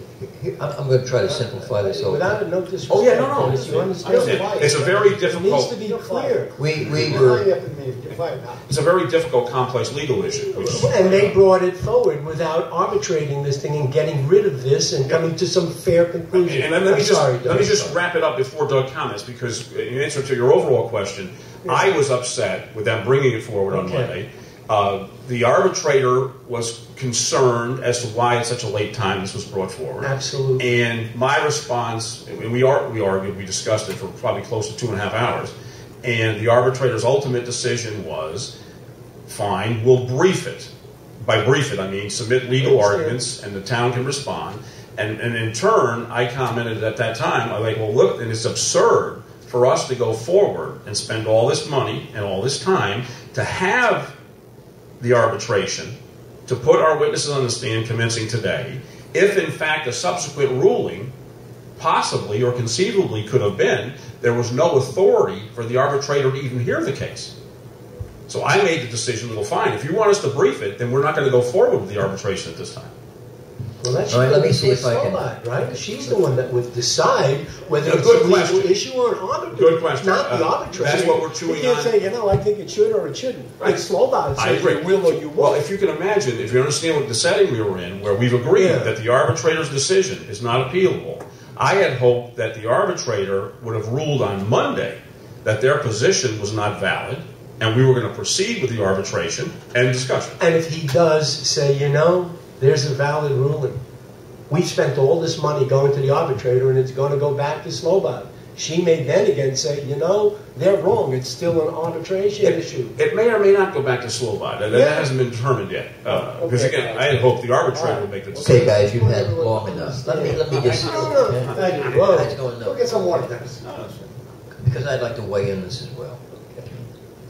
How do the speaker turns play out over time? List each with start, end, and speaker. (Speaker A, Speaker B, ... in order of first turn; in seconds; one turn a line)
Speaker A: 0.2-2.4
Speaker B: 1.2-6.5
Speaker C: 2.9-5.8
Speaker D: 3.4-4.9
Speaker D: 5.8-8.6
Speaker A: 6.6-7.5
Speaker C: 6.9-7.3
Speaker C: 8.7-11.4
Speaker B: 10.5-18.0
Speaker C: 16.3-38.5
Speaker B: 21.6-21.9
Speaker B: 23.7-24.1
Speaker B: 30.0-30.7
Speaker C: 39.3-40.7
Speaker C: 41.2-54.1
Speaker B: 42.6-43.2
Speaker C: 55.0-55.9
Speaker C: 56.5-61.1
Speaker C: 61.8-67.3
Speaker C: 68.3-72.9
Speaker B: 73.8-85.2
Speaker A: 74.1-75.3
Speaker C: 77.8-78.7
Speaker C: 79.5-81.9
Speaker C: 84.4-100.4
Speaker D: 84.6-85.6
Speaker B: 88.5-88.9
Speaker B: 100.4-103.8
Speaker B: 104.5-113.0
Speaker C: 112.4-118.7
Speaker B: 114.7-115.1
Speaker D: 116.1-117.1
Speaker D: 117.7-123.6
Speaker A: 118.4-123.2
Speaker B: 120.0-122.4
Speaker C: 120.5-121.9
Speaker C: 123.6-124.0
Speaker A: 124.5-126.8